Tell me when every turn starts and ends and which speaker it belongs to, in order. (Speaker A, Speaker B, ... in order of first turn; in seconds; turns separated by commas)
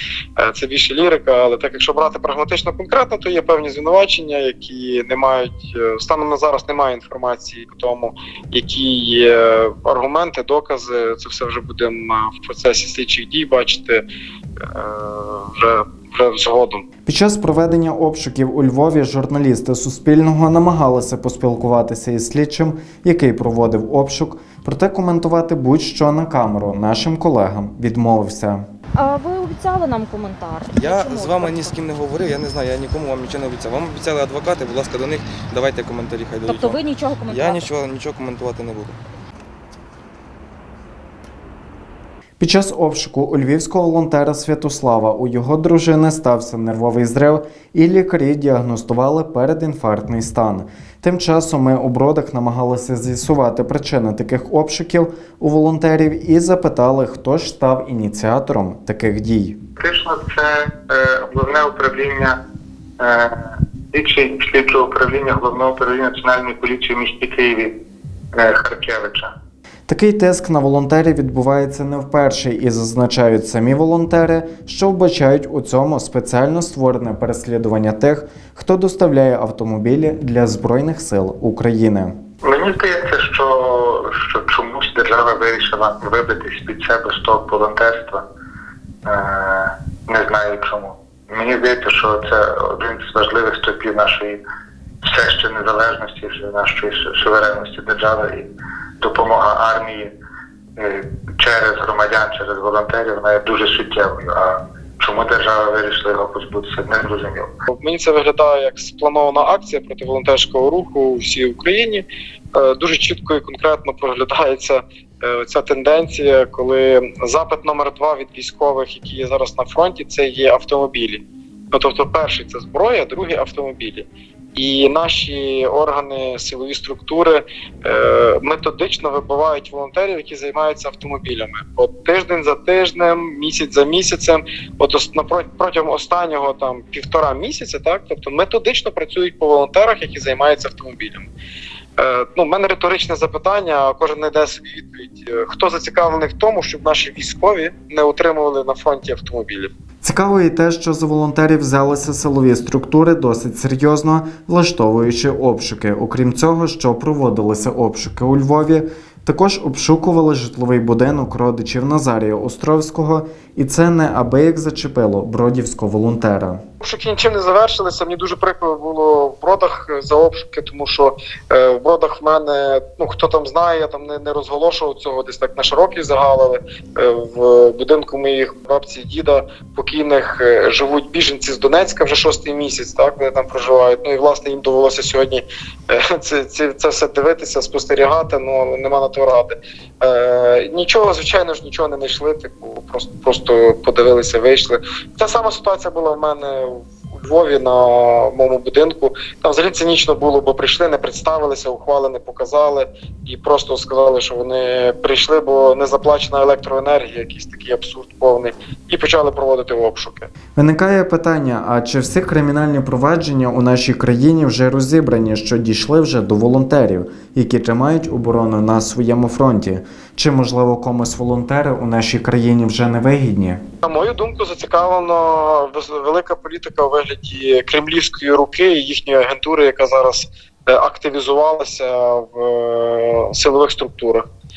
Speaker A: 0.4-14.0, Speaker A: 14.6-16.9, Speaker B: 17.1-28.7, Speaker C: 29.0-32.3, Speaker D: 30.7-39.0, Speaker C: 36.5-37.7, Speaker B: 42.4-59.6, Speaker E: 59.8-62.4, Speaker E: 63.0-67.7, Speaker E: 68.3-69.3, Speaker B: 69.9-82.2, Speaker E: 82.4-88.2, Speaker E: 89.0-94.4, Speaker E: 95.0-98.5, Speaker E: 99.0-100.1, Speaker E: 100.8-107.5, Speaker A: 107.7-141.3, Speaker A: 142.0-149.7, Speaker B: 150.0-166.6, Speaker A: 166.8-210.3, Speaker B: 210.6-223.6, Speaker A: 223.8-234.2